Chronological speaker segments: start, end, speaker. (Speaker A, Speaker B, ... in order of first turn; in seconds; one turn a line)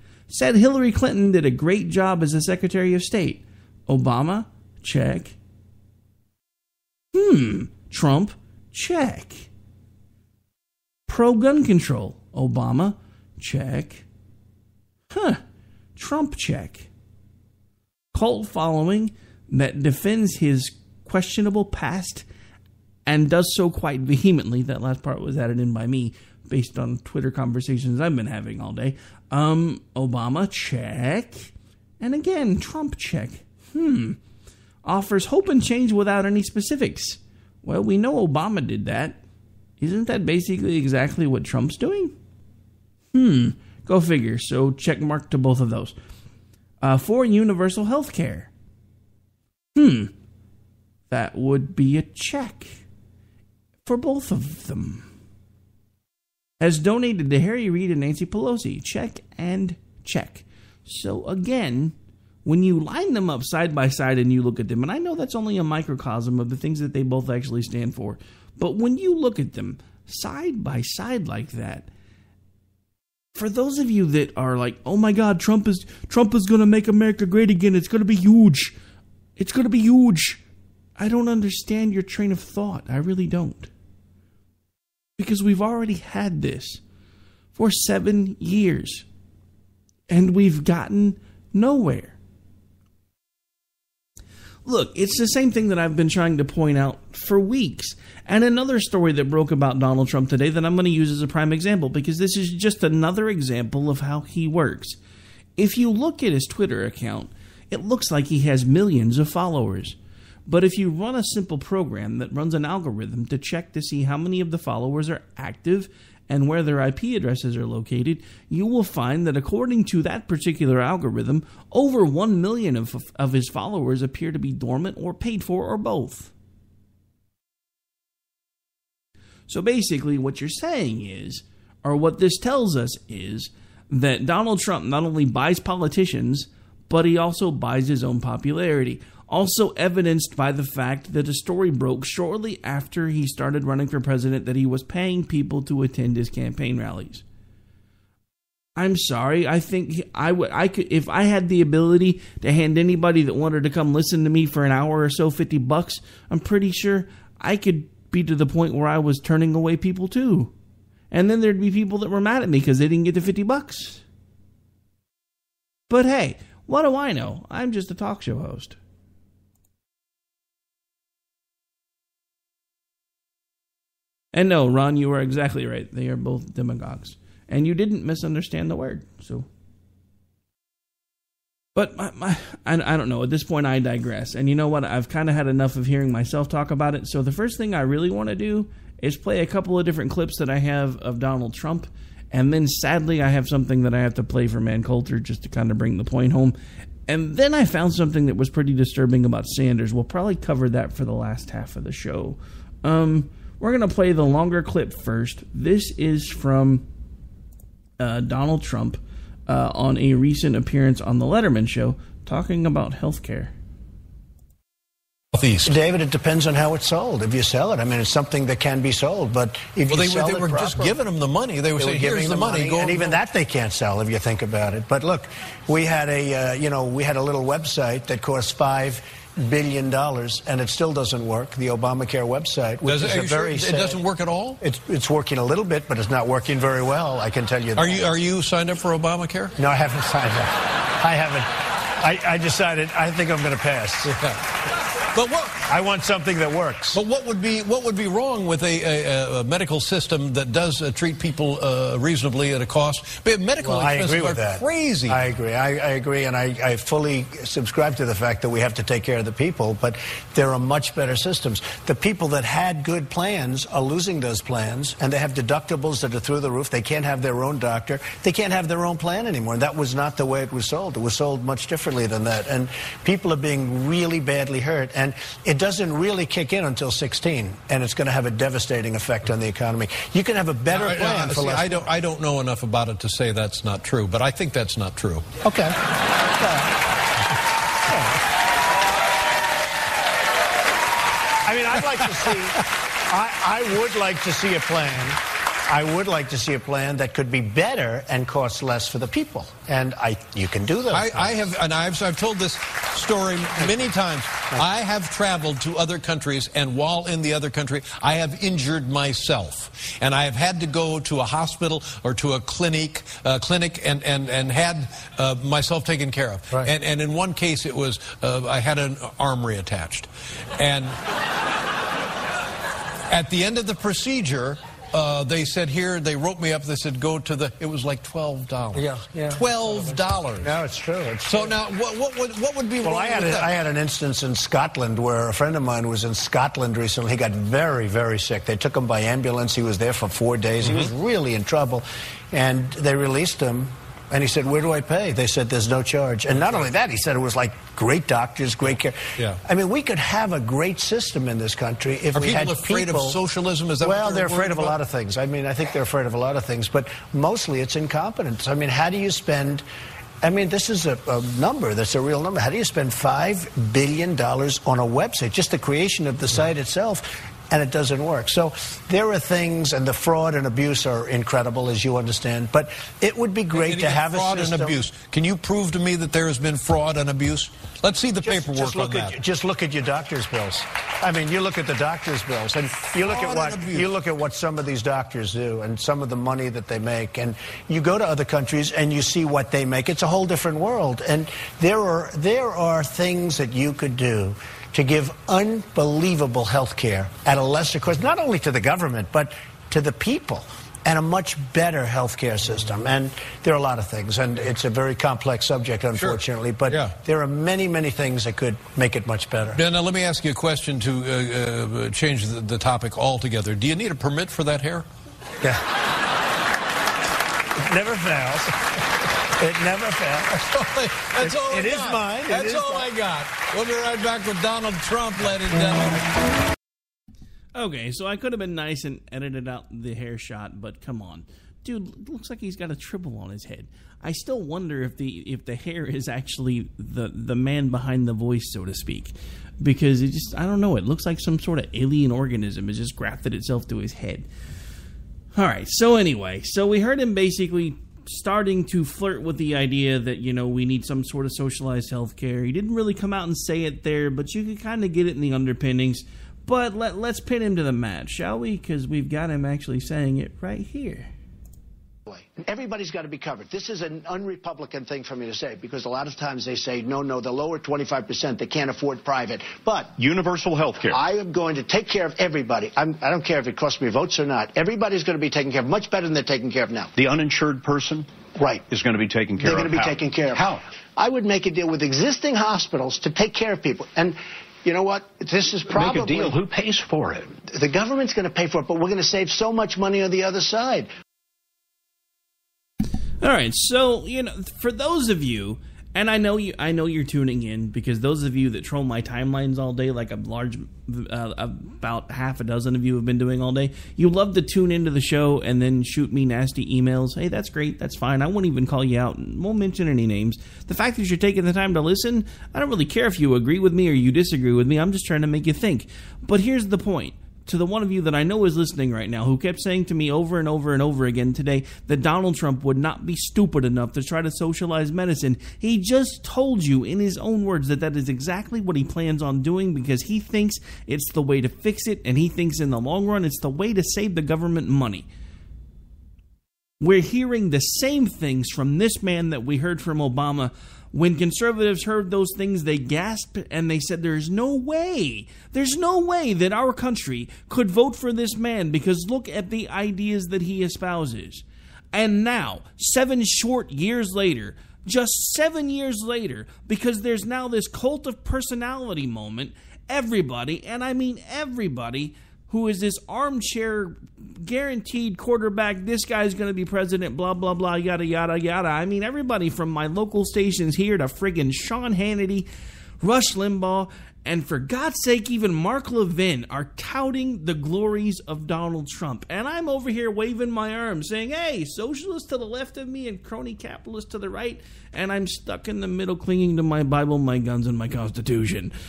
Speaker A: 0.3-5.4
Speaker A: 7.1-9.5
Speaker A: 11.1-14.1
Speaker A: 15.1-15.4
Speaker A: 16.0-16.9
Speaker A: 18.1-22.3
Speaker A: 23.1-34.2
Speaker A: 34.8-39.2
Speaker A: 39.8-42.2
Speaker A: 43.1-46.0
Speaker A: 46.8-48.5
Speaker A: 49.8-50.1
Speaker A: 51.1-52.8
Speaker A: 53.9-55.1
Speaker A: 56.6-71.9
Speaker A: 73.3-78.8
Speaker A: 79.4-80.4
Speaker A: 81.0-83.7
Speaker A: 85.2-86.8
Speaker A: 87.5-89.1
Speaker A: 90.1-92.2
Speaker A: 94.7-105.0
Speaker A: 105.6-126.3
Speaker A: 129.5-147.2
Speaker A: 148.8-160.5
Speaker A: 161.1-164.0
Speaker A: 165.9-168.8
Speaker A: 174.3-179.5
Speaker A: 181.8-196.6
Speaker A: 197.1-206.9
Speaker A: 208.0-213.5
Speaker B: 215.3-215.7
Speaker C: 215.6-221.0
Speaker B: 219.9-223.2
Speaker C: 221.8-234.0
Speaker B: 232.8-234.6
Speaker C: 234.6-238.1
Speaker B: 237.8-239.5
Speaker C: 239.6-244.2
Speaker B: 244.0-244.5
Speaker B: 245.1-245.7
Speaker C: 245.7-247.0
Speaker B: 246.9-255.2
Speaker C: 253.6-281.9
Speaker B: 280.7-285.3
Speaker C: 285.4-286.7
Speaker C: 291.4-301.4
Speaker B: 300.9-321.0
Speaker C: 303.6-303.9
Speaker B: 323.1-330.5
Speaker C: 328.7-331.6
Speaker B: 331.3-333.5
Speaker C: 332.8-353.2
Speaker B: 340.6-340.9
Speaker B: 352.1-354.8
Speaker C: 353.8-359.6
Speaker C: 360.2-374.8
Speaker B: 373.5-379.2
Speaker C: 378.2-409.6
Speaker B: 383.0-383.9
Speaker B: 405.9-406.9
Speaker B: 409.6-414.9
Speaker C: 415.4-415.7
Speaker C: 417.6-422.9
Speaker B: 421.0-426.0
Speaker A: 427.6-444.3
Speaker A: 445.4-461.1
Speaker C: 462.1-469.9
Speaker D: 470.0-471.0
Speaker C: 470.9-476.9
Speaker D: 477.0-478.1
Speaker D: 478.7-480.6
Speaker C: 479.5-480.4
Speaker C: 481.0-486.4
Speaker D: 485.7-487.2
Speaker C: 487.5-490.9
Speaker A: 493.2-535.1
Speaker A: 536.8-572.5
Speaker A: 573.0-588.7